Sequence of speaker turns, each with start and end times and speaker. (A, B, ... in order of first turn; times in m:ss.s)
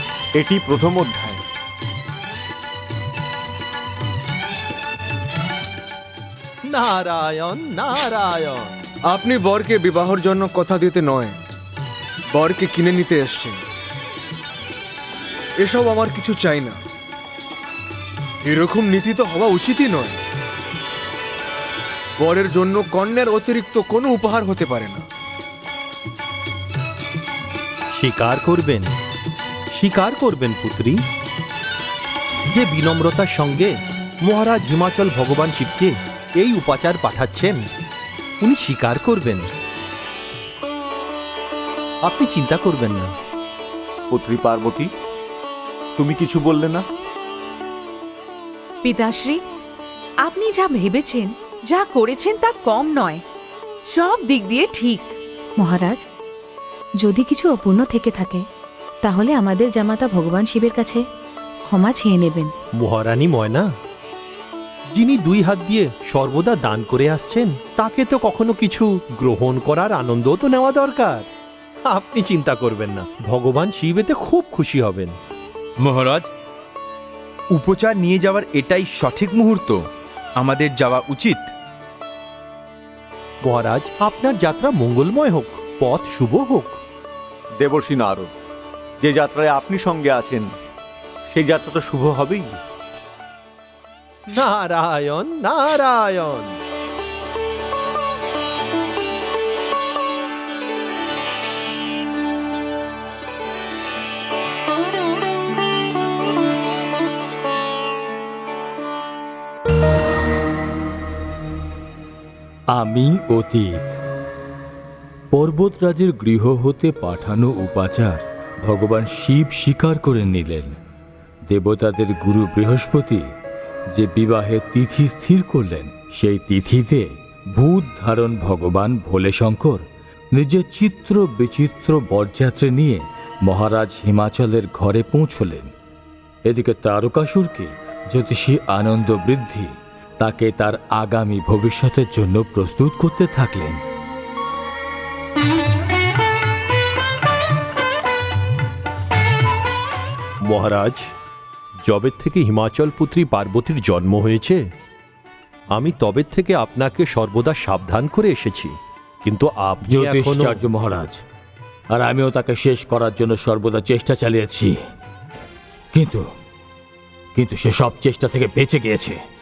0:00.4-0:01.4 A
0:06.7-0:08.7 B
0:09.1-0:11.4 C
0:12.3-0:13.6 C
0:15.6-0:16.8 C
0:18.4-0:20.2 C
0:22.2-0:25.0 C
0:28.0-0:29.0 B
0:29.7-0:31.0 B
0:32.5-0:33.7 B
0:34.2-0:37.6 B
0:38.4-0:39.5 B
0:42.0-0:43.1 B
0:44.1-0:44.9 A
0:46.0-0:46.8 A
0:48.8-0:49.4 D
0:50.3-0:53.2 D
0:53.9-0:55.1 D
0:55.6-0:56.0 E
0:57.0-0:58.4 E
0:59.0-1:01.0 E
1:01.7-1:02.5 E
1:02.8-1:03.6 B
1:05.0-1:11.3 B
1:11.9-1:15.1 B
1:15.8-1:16.3 F
1:17.5-1:19.8 F
1:20.4-1:21.5 F
1:23.4-1:26.7 B
1:27.6-1:28.3 A
1:29.0-1:30.4 A
1:31.3-1:32.5 A
1:34.3-1:36.5 B
1:52.7-1:54.0 G
1:55.3-2:00.8 G
2:01.5-2:03.3 G
2:03.9-2:15.7 G
2:16.4-2:23.8 G
2:30.5-2:31.0 B
2:31.8-2:34.6 B
2:35.7-2:38.7 B
2:39.2-2:40.6 B
2:39.9-2:41.2 G
2:41.9-2:44.8 G
2:45.9-2:46.2 G
2:47.3-2:49.2 G